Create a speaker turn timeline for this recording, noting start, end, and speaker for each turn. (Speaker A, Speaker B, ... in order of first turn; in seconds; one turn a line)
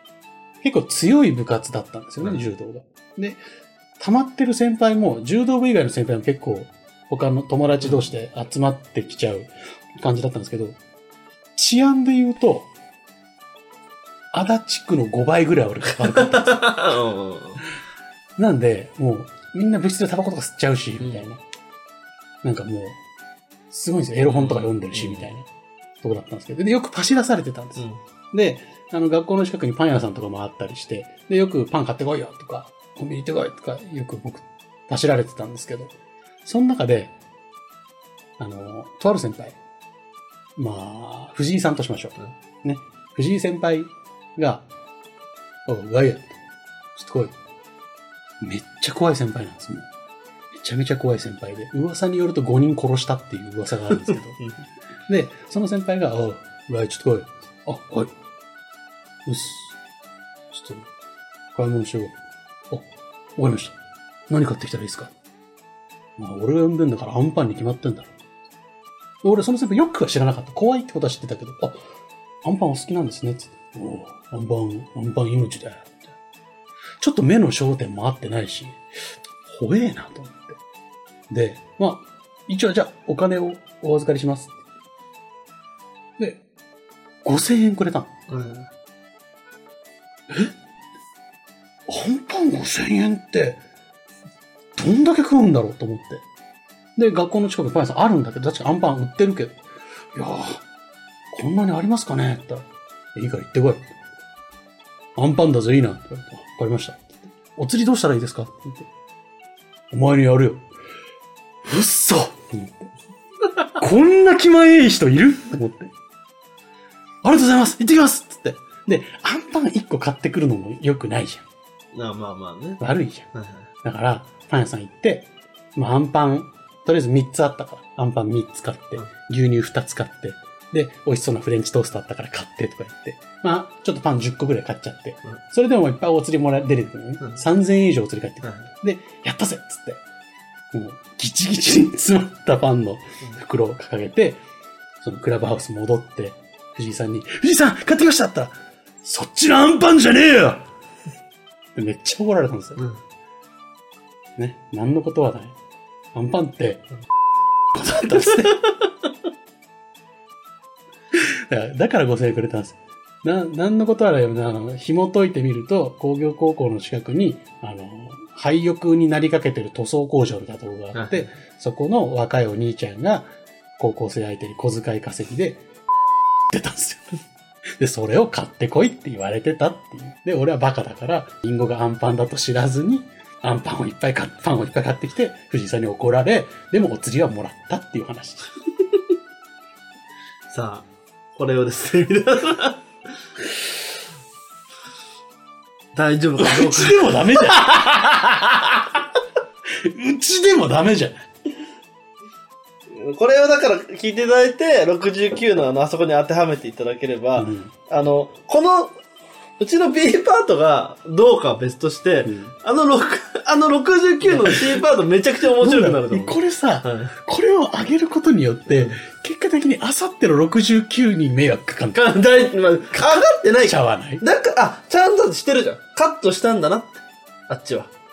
Speaker A: 0.6-3.4
Speaker B: 2.2-2.5
Speaker A: 4.0-10.8
Speaker A: 11.6-12.7
Speaker A: 14.3-16.9
Speaker B: 16.2-17.6
Speaker A: 18.4-21.4
Speaker B: 21.0-21.3
Speaker A: 22.4-23.0
Speaker A: 23.7-25.5
Speaker B: 24.3-25.3
Speaker A: 26.0-35.9
Speaker A: 36.5-37.1
Speaker A: 38.4-39.6
Speaker A: 40.6-44.6
Speaker A: 45.7-46.4
Speaker A: 47.0-47.3
Speaker A: 48.4-49.9
Speaker A: 50.5-54.5
Speaker A: 55.1-58.1
Speaker A: 59.3-59.8
Speaker A: 60.5-60.9
Speaker A: 61.5-62.1
Speaker A: 62.7-63.8
Speaker A: 64.3-65.1
Speaker A: 66.2-68.1
Speaker A: 69.2-71.8
Speaker A: 72.4-76.1
Speaker A: 77.0-78.8
Speaker A: 79.5-80.6
Speaker A: 81.3-84.6
Speaker A: 87.2-88.1
Speaker B: 88.3-88.7
Speaker A: 91.9-93.6
Speaker A: 94.8-96.2
Speaker A: 97.0-99.6
Speaker A: 100.2-100.6
Speaker A: 101.3-102.6
Speaker A: 103.2-103.9
Speaker A: 105.2-108.9
Speaker A: 109.9-110.7
Speaker A: 111.7-112.8
Speaker A: 113.8-115.9
Speaker A: 117.2-121.5
Speaker B: 121.9-122.8
Speaker A: 122.8-140.0
Speaker B: 123.3-123.7
Speaker A: 140.7-144.4
Speaker A: 145.0-150.7
Speaker A: 151.8-152.9
Speaker A: 154.4-155.6
Speaker A: 156.1-156.8
Speaker A: 157.7-158.6
Speaker A: 161.1-173.3
Speaker B: 170.9-171.3
Speaker A: 173.8-175.6
Speaker A: 176.5-177.2
Speaker A: 177.8-188.5
Speaker B: 190.5-192.8
Speaker B: 195.9-198.0
Speaker A: 196.4-197.7
Speaker A: 199.8-201.2
Speaker B: 202.9-208.9
Speaker A: 207.4-207.7
Speaker B: 209.6-217.1
Speaker A: 212.3-212.5
Speaker A: 214.2-214.8
Speaker A: 215.6-222.2
Speaker B: 218.7-219.0
Speaker B: 221.9-227.9
Speaker A: 222.9-224.2